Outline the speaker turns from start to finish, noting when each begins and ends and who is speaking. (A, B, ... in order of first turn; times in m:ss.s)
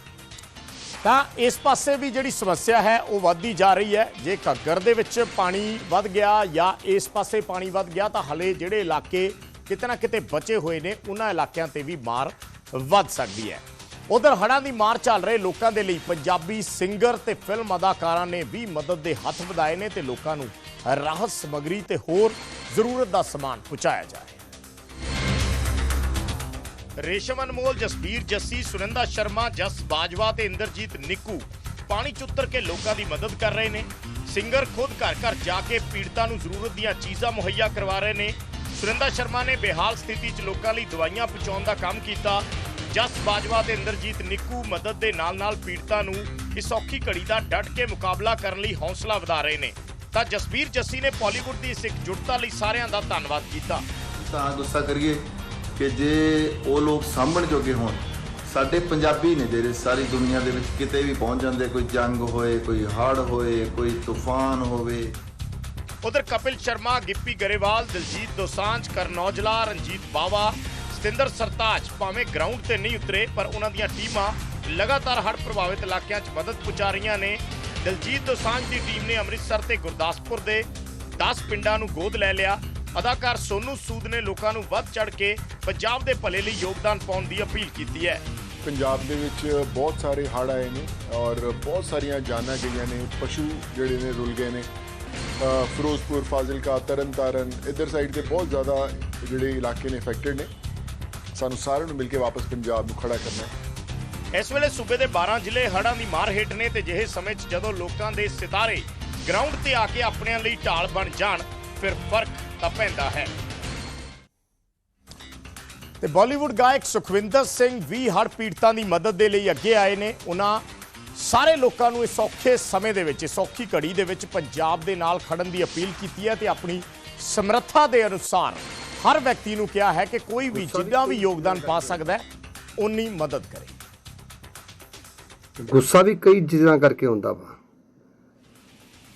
0:01.0-0:24.4 A
0:27.0-0:53.9 A
0:54.2-0:55.2 B
0:55.8-1:05.2 B
1:06.0-1:28.2 A
1:28.6-1:34.7 C
1:35.4-1:40.5 C
1:41.4-1:43.5 C
1:44.3-1:53.3 A
1:56.0-2:00.6 A
2:01.2-2:12.2 A
2:10.5-2:12.0 D
2:12.8-2:13.7 A
2:15.6-2:17.6 D